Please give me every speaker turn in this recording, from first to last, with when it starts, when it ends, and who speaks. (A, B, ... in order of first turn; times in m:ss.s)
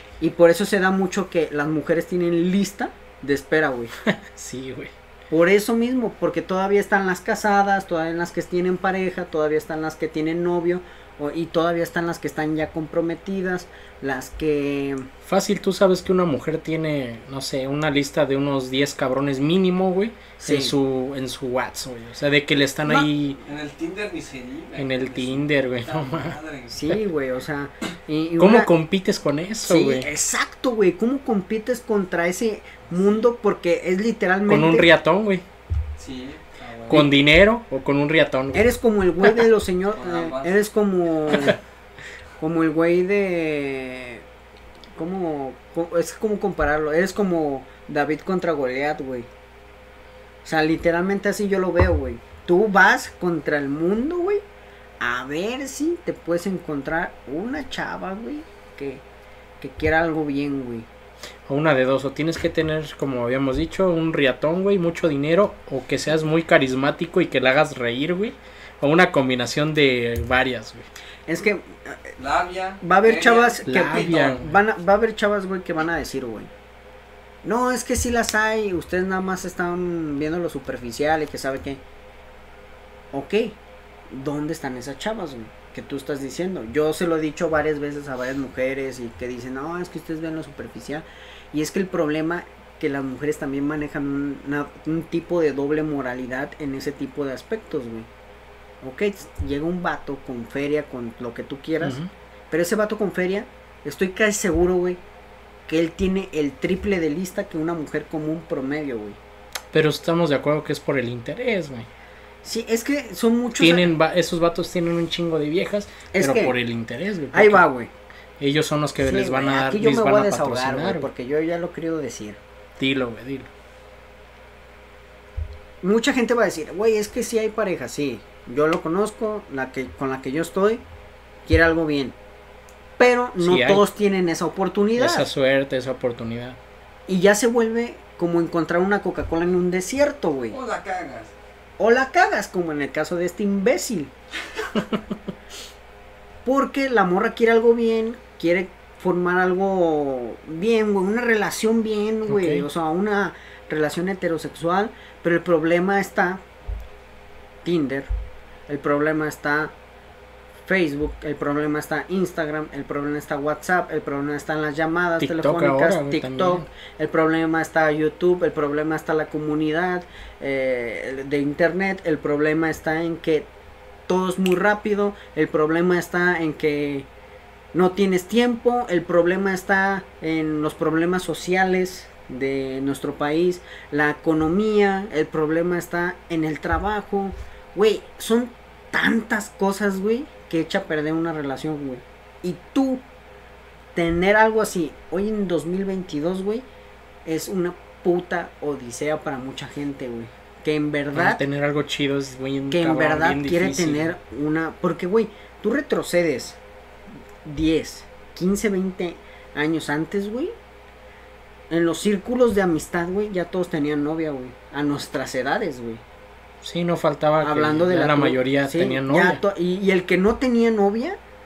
0:00.2-0:03.9 A
0:04.0-0:04.9 B
0:05.3-0:15.1 A
0:15.2-0:23.4 B
0:20.4-0:20.7 A
0:23.4-0:26.9 C
0:24.8-0:26.4 B
0:26.7-0:28.7 A
0:28.4-0:30.1 B
0:29.6-0:34.9 A
0:32.9-0:33.3 C
0:34.5-0:35.4 B
0:36.0-0:37.1 C
0:36.9-0:38.7 B
0:38.5-0:41.6 A
0:39.9-0:40.6 C
0:42.4-0:44.2 A
0:45.0-0:49.3 A
0:50.4-0:54.4 A
0:55.0-0:59.0 A
0:59.6-1:00.9 A
1:01.4-1:10.9 B
1:11.3-1:12.1 A
1:12.2-1:14.3 C
1:12.8-1:16.5 A
1:13.6-1:14.5 B
1:17.4-1:21.8 A
1:23.1-1:23.6 A
1:24.1-1:38.1 A
1:38.8-1:42.0 A
1:41.8-1:42.1 B
1:42.5-1:45.0 A
1:45.7-1:49.2 A
1:49.7-1:51.9 B
1:52.4-1:53.9 A
1:53.6-1:57.6 B
1:56.1-1:56.6 A
1:57.3-1:57.9 A
1:58.4-2:01.1 B
1:59.0-2:02.4 A
2:02.8-2:03.5 B
2:05.8-2:10.8 A
2:11.4-2:12.2 A
2:13.0-2:15.3 A
2:13.4-2:13.8 B
2:15.0-2:16.6 B
2:17.1-2:20.6 A
2:20.5-2:21.3 C
2:21.8-2:24.1 A
2:26.4-2:36.4 A
2:32.3-2:32.6 B
2:37.6-2:38.1 A
2:38.7-2:39.7 A
2:40.6-2:53.5 A
2:45.2-2:46.7 B
2:54.1-2:57.1 A
2:57.7-3:13.0 A
3:13.9-3:16.6 A
3:17.2-3:21.4 A
3:21.1-3:24.2 B
3:22.7-3:26.6 A
3:27.4-3:30.5 A
3:31.7-3:36.0 A
3:36.6-3:39.4 B
3:37.4-3:41.2 A